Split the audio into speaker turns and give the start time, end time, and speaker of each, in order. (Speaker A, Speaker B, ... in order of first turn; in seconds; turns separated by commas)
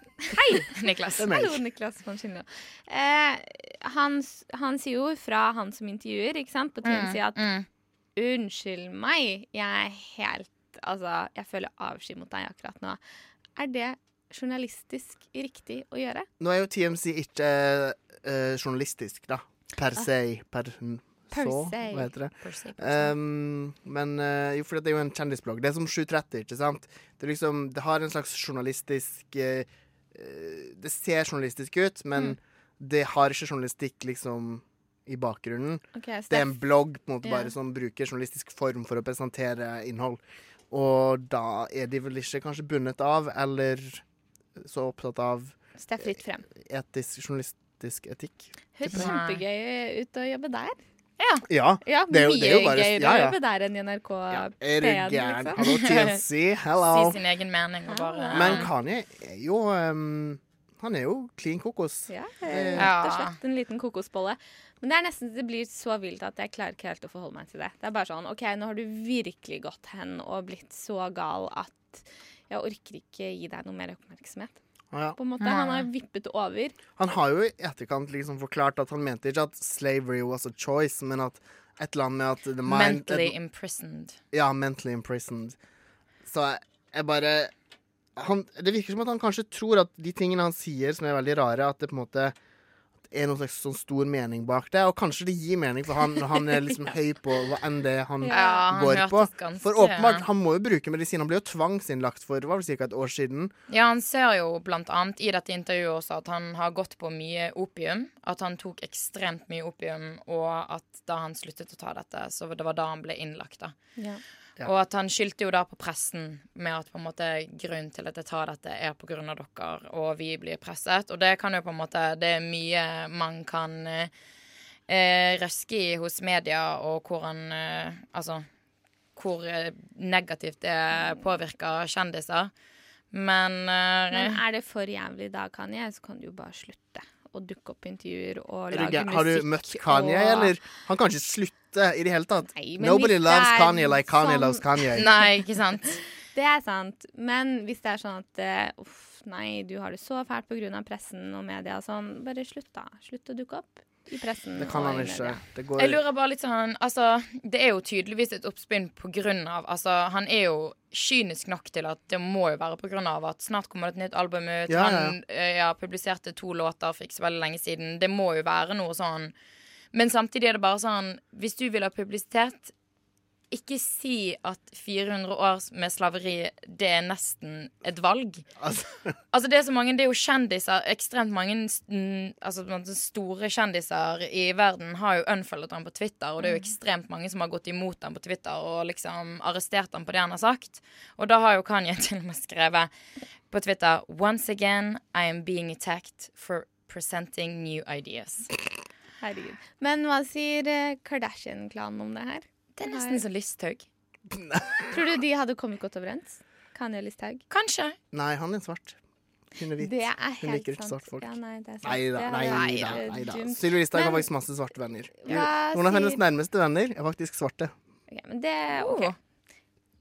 Speaker A: 0.2-7.4, Speaker B: 0.7-1.3, Speaker C: 1.2-1.6, Speaker B: 6.8-7.7, Speaker A: 8.2-13.0, Speaker A: 13.6-16.3, Speaker C: 16.4-44.0, Speaker A: 21.3-22.1, Speaker B: 22.4-23.1, Speaker A: 35.9-36.6, Speaker A: 37.2-37.5, Speaker C: 44.6-46.0, Speaker A: 45.8-46.5, Speaker C: 46.5-49.1, Speaker A: 48.8-50.8, Speaker B: 48.9-49.4, Speaker B: 51.2-51.4, Speaker C: 51.5-53.4, Speaker A: 51.8-55.6, Speaker C: 54.3-57.2, Speaker B: 55.6-56.2, Speaker B: 56.8-58.7, Speaker A: 57.9-58.7, Speaker C: 58.3-62.9, Speaker A: 62.1-74.6, Speaker B: 62.8-63.4, Speaker C: 74.9-75.2, Speaker A: 75.2-76.8, Speaker B: 75.4-75.9, Speaker C: 77.0-83.3, Speaker B: 82.7-84.2, Speaker C: 84.3-85.6, Speaker C: 86.2-87.5, Speaker C: 88.2-92.3, Speaker C: 93.1-103.5, Speaker A: 98.2-98.7, Speaker B: 98.3-100.2, Speaker B: 103.7-113.7, Speaker B: 114.6-124.1, Speaker B: 124.9-128.4, Speaker B: 129.2-132.5, Speaker B: 133.1-134.4, Speaker A: 134.1-140.5, Speaker C: 138.7-145.1, Speaker A: 142.5-145.2, Speaker B: 144.9-146.0, Speaker A: 146.3-155.4, Speaker C: 154.6-156.0, Speaker B: 155.8-169.3, Speaker C: 164.7-165.2, Speaker B: 169.9-172.7, Speaker B: 173.5-178.4, Speaker C: 178.6-179.1, Speaker B: 179.3-192.9, Speaker A: 186.4-186.7, Speaker B: 193.5-198.5, Speaker A: 199.2-203.2, Speaker B: 202.8-203.8, Speaker C: 204.3-204.9, Speaker A: 204.9-207.4, Speaker B: 207.5-208.0, Speaker C: 208.1-209.0, Speaker C: 209.6-217.7, Speaker A: 209.8-214.3, Speaker B: 212.5-213.0, Speaker A: 215.2-216.2, Speaker A: 218.1-219.1, Speaker B: 218.8-219.1